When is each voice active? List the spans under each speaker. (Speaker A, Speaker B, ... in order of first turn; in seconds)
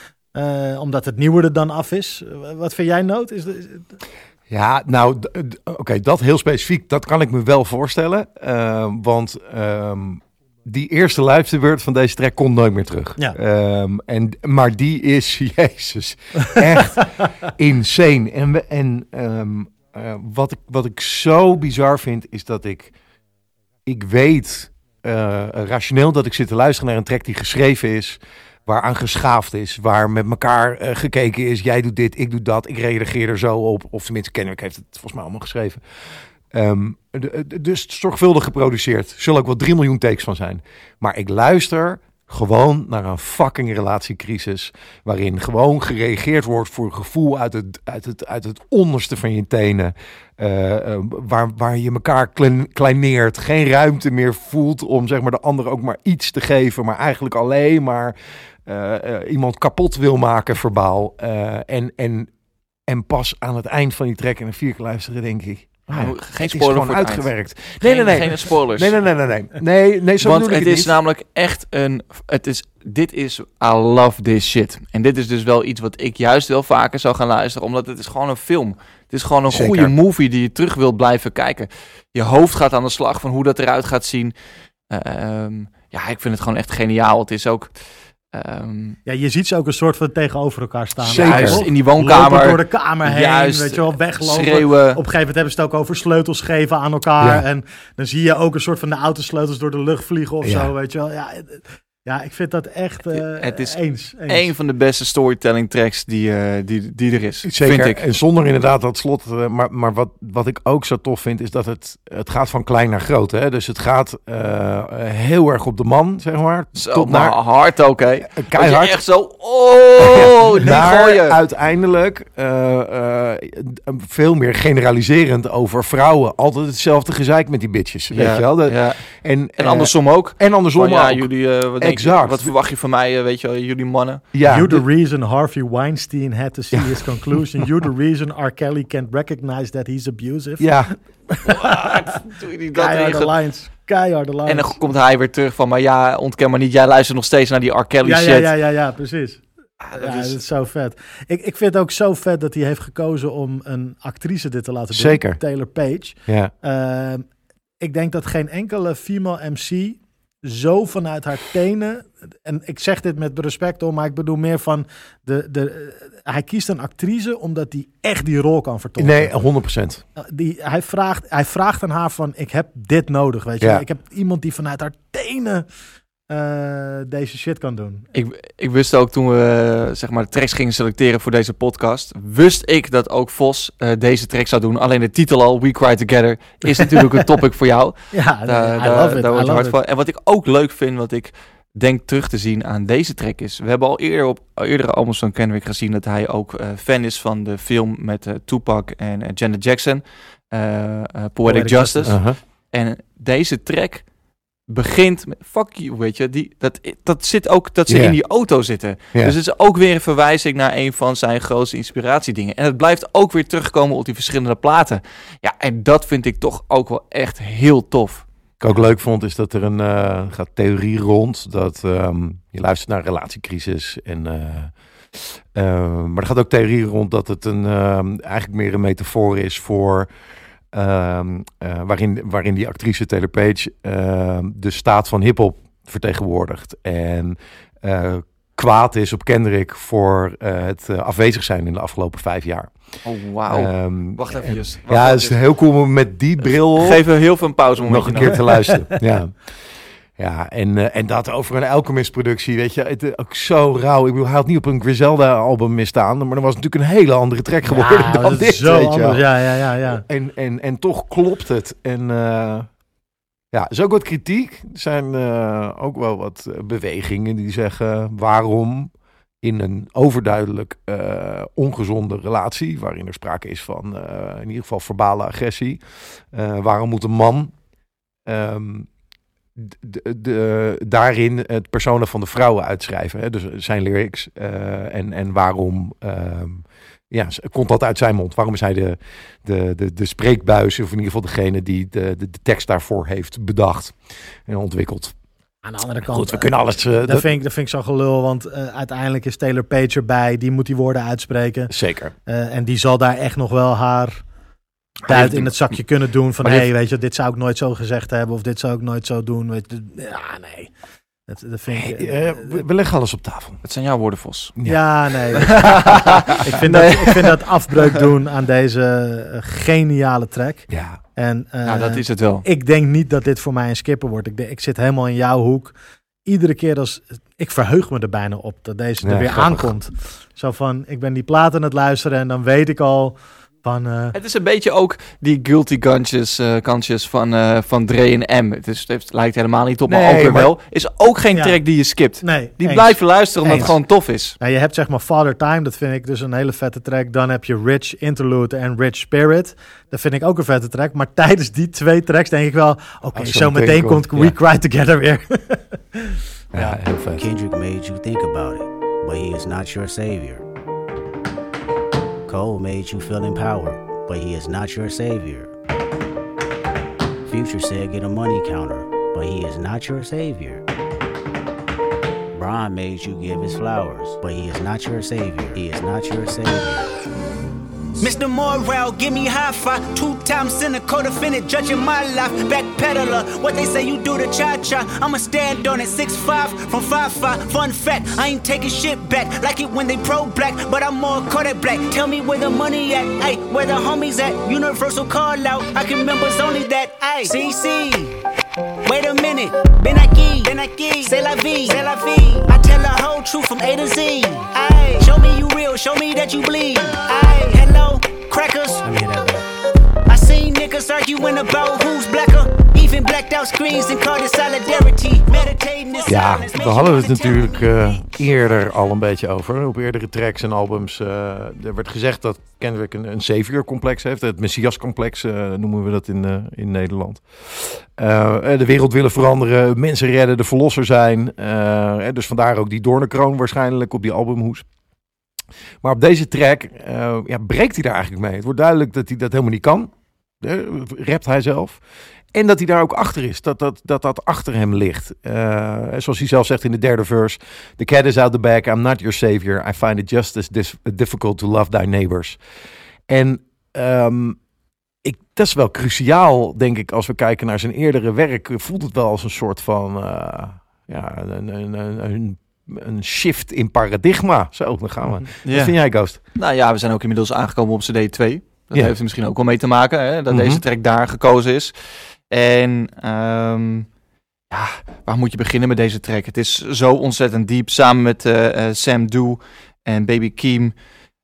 Speaker A: 0.3-4.0, 89.0-104.5, 134.5-142.0, 142.7-144.8, 148.0-157.2, 157.8-169.3, 170.2-175.7, 176.3-178.1, 188.1-189.8, 201.4-202.1, 257.6-260.0, 295.6-301.7, 302.3-304.2, 305.1-310.7, 311.3-312.6, 314.6-334.1, 341.3-356.8, 408.9-409.4
Speaker B: 4.5-22.9, 23.8-35.8, 36.5-62.3, 62.9-70.9, 79.5-79.9, 91.0-91.6, 100.4-100.7, 107.4-117.4, 118.3-119.0, 120.0-132.5, 134.3-134.8, 136.7-137.6, 140.6-140.9, 154.9-155.4, 156.3-156.5, 169.0-170.0, 202.1-202.4, 207.9-208.2, 218.6-230.1, 230.7-242.7, 243.5-247.0, 247.8-262.7, 263.5-275.8, 276.3-277.5, 278.2-278.9, 279.6-295.1, 296.1-297.3, 301.7-302.1, 305.1-305.5, 306.4-306.7, 311.7-313.6, 314.6-315.8, 320.7-321.0, 329.0-329.7, 339.9-340.5, 353.1-354.4, 356.5-357.2, 416.0-434.6, 435.8-441.8, 442.3-452.4, 453.1-454.4, 455.0-466.2, 470.3-470.6
Speaker C: 65.9-69.0, 70.2-84.3, 84.9-87.7, 88.3-89.0, 91.2-95.0, 103.1-108.0, 116.8-121.4, 128.1-129.0, 129.6-134.2, 141.4-143.3, 144.4-148.5, 149.8-150.3, 178.1-204.1, 204.7-218.2, 243.0-245.4, 246.7-248.5, 313.6-314.6, 315.3-317.4, 321.6-322.4, 334.1-344.4, 465.5-473.9, 474.5-480.7
Speaker D: 357.1-360.4, 362.3-365.5, 367.3-370.6, 372.3-376.8
Speaker E: 378.0-398.1, 398.8-409.0, 410.1-418.0